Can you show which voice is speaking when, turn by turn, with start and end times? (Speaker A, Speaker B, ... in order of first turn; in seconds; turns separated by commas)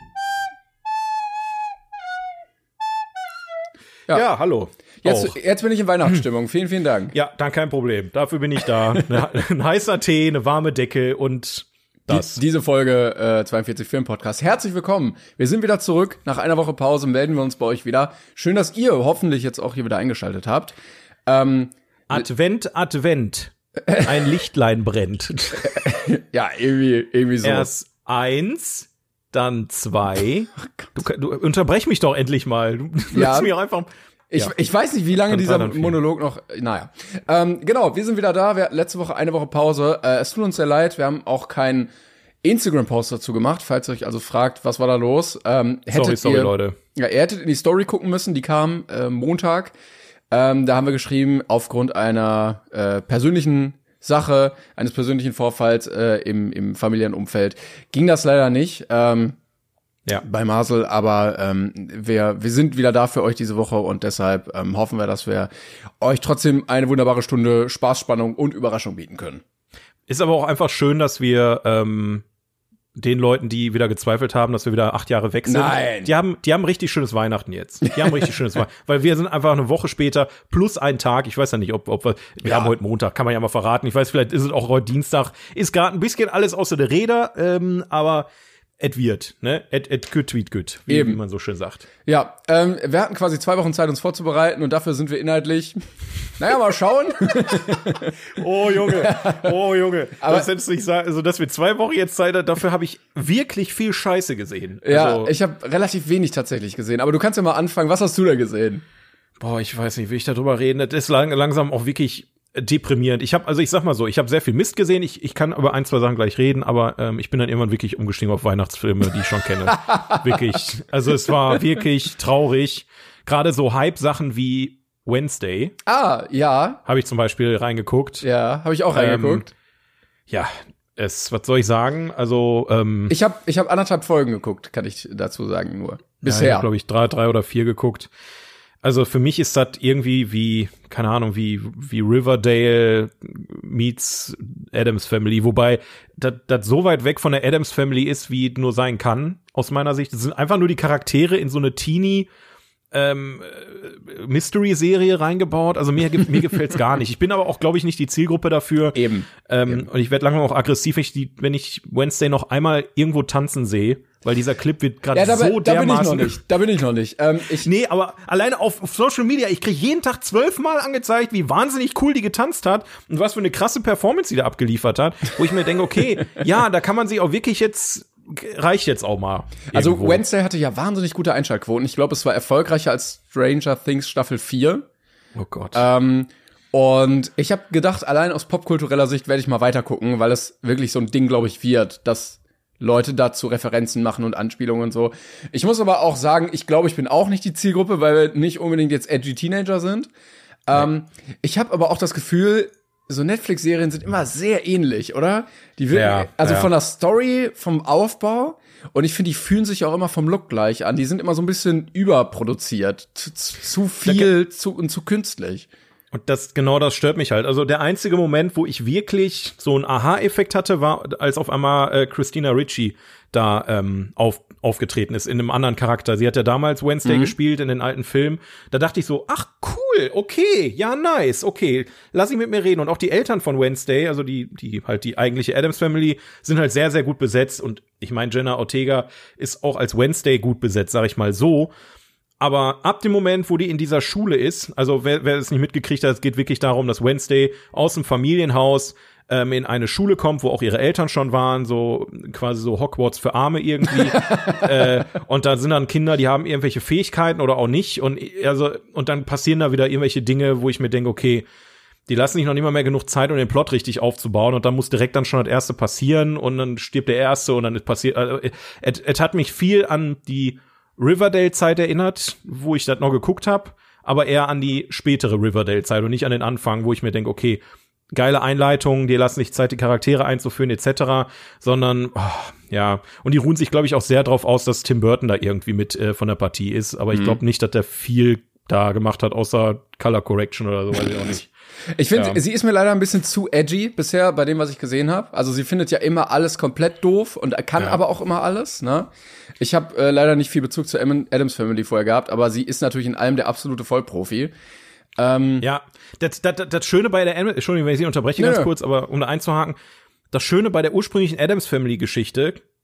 Speaker A: 4.1-5.3, Speaker B: 5.0-7.1, Speaker A: 7.1-12.4, Speaker B: 12.1-20.7, Speaker B: 21.3-21.7, Speaker A: 22.1-25.9, Speaker B: 25.6-27.7, Speaker A: 27.4-34.5, Speaker B: 33.1-33.5, Speaker B: 34.3-41.9, Speaker A: 35.2-36.0, Speaker B: 42.4-49.7, Speaker A: 45.9-46.8, Speaker B: 50.3-59.4, Speaker B: 60.2-65.5, Speaker B: 66.0-69.4, Speaker A: 70.1-72.2, Speaker A: 73.0-88.3, Speaker B: 75.5-76.1, Speaker B: 77.8-78.3, Speaker B: 82.4-82.7, Speaker A: 88.8-91.9, Speaker B: 90.9-91.2, Speaker B: 92.0-98.1, Speaker A: 98.3-105.3, Speaker B: 98.7-99.5, Speaker B: 100.2-100.5, Speaker B: 104.8-108.8, Speaker A: 109.4-125.7, Speaker B: 119.8-120.4, Speaker B: 125.8-126.8, Speaker A: 126.8-128.3, Speaker B: 128.2-129.5, Speaker A: 128.9-129.4, Speaker A: 130.3-133.1, Speaker B: 133.1-136.7, Speaker A: 136.2-138.1, Speaker A: 138.8-152.3, Speaker A: 152.9-166.4, Speaker B: 158.9-159.9, Speaker B: 165.1-167.7, Speaker A: 167.6-180.2, Speaker B: 179.7-184.8, Speaker A: 185.3-185.8, Speaker B: 185.7-200.1, Speaker B: 200.7-215.7, Speaker A: 205.9-206.7, Speaker A: 216.1-241.7, Speaker B: 227.0-227.3, Speaker A: 242.4-261.4, Speaker B: 254.2-254.6, Speaker A: 262.1-277.6, Speaker A: 278.1-291.5, Speaker B: 287.1-287.4, Speaker B: 291.9-304.5, Speaker A: 292.1-292.4, Speaker B: 305.2-305.6, Speaker A: 305.6-309.8, Speaker B: 308.4-308.7, Speaker A: 310.3-312.6